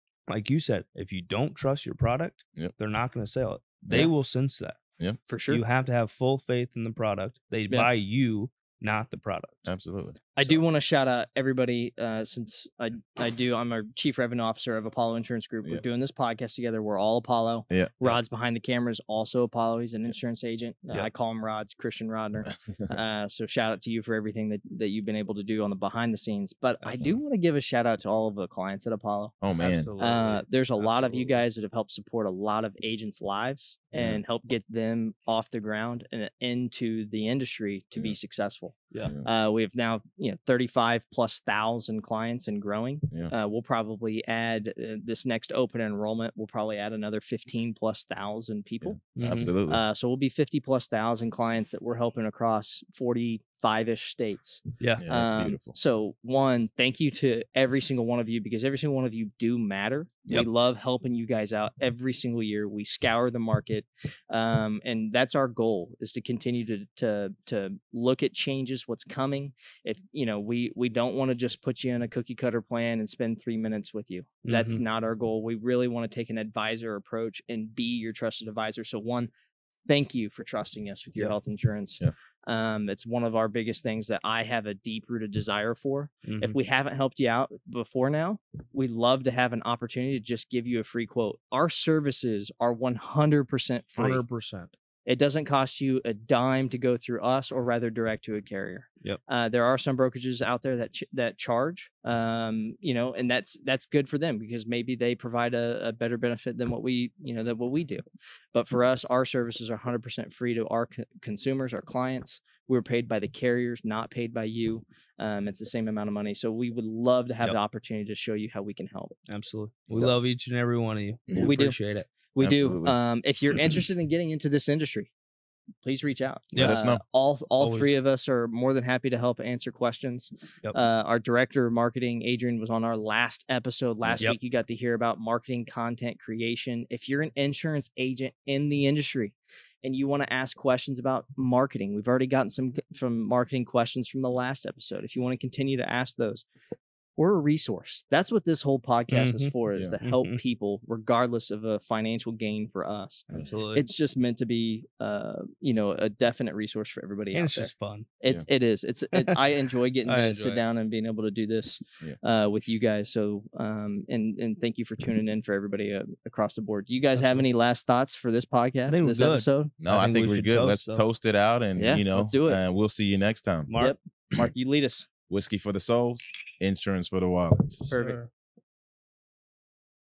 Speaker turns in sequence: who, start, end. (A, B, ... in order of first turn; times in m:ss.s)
0:00.3-0:04.8 A
0:03.8-0:04.1 B
0:05.3-0:05.6 C
0:05.5-0:09.6 A
0:09.6-0:10.6 B
0:10.4-0:29.4 C
0:17.7-0:18.2 B
0:26.8-0:27.1 A
0:29.4-0:29.9 B
0:29.6-0:31.4 A
0:30.0-0:49.0 C
0:33.9-0:34.2 B
0:48.8-0:49.8 B
0:49.2-0:49.5 A
0:49.7-1:19.3 C
0:54.8-0:55.0 A
0:55.0-0:55.8 B
1:14.4-1:14.8 A
1:19.9-1:34.2 C
1:26.2-1:26.6 A
1:34.0-1:34.7 A
1:35.0-1:48.0 C
1:48.5-1:59.1 C
1:59.3-2:02.1 A
2:01.3-2:01.5 B
2:01.4-2:01.8 C
2:02.3-2:05.1 C
2:02.4-2:03.0 B
2:03.5-2:03.8 B
2:05.8-2:26.4 C
2:06.5-2:06.8 A
2:06.6-2:07.0 B
2:07.6-2:07.9 A
2:14.0-2:14.3 B
2:27.2-2:49.7 C
2:29.1-2:30.4 A
2:33.4-2:33.9 A
2:37.3-2:38.0 A
2:39.2-2:39.4 A
2:40.0-2:40.6 A
2:48.9-2:51.0 A
2:49.8-2:53.7 B
2:51.8-2:52.6 C
2:53.7-2:54.0 A
2:53.8-2:55.1 C
2:55.3-2:57.9 B
2:57.9-2:58.2 C
2:57.9-2:58.3 A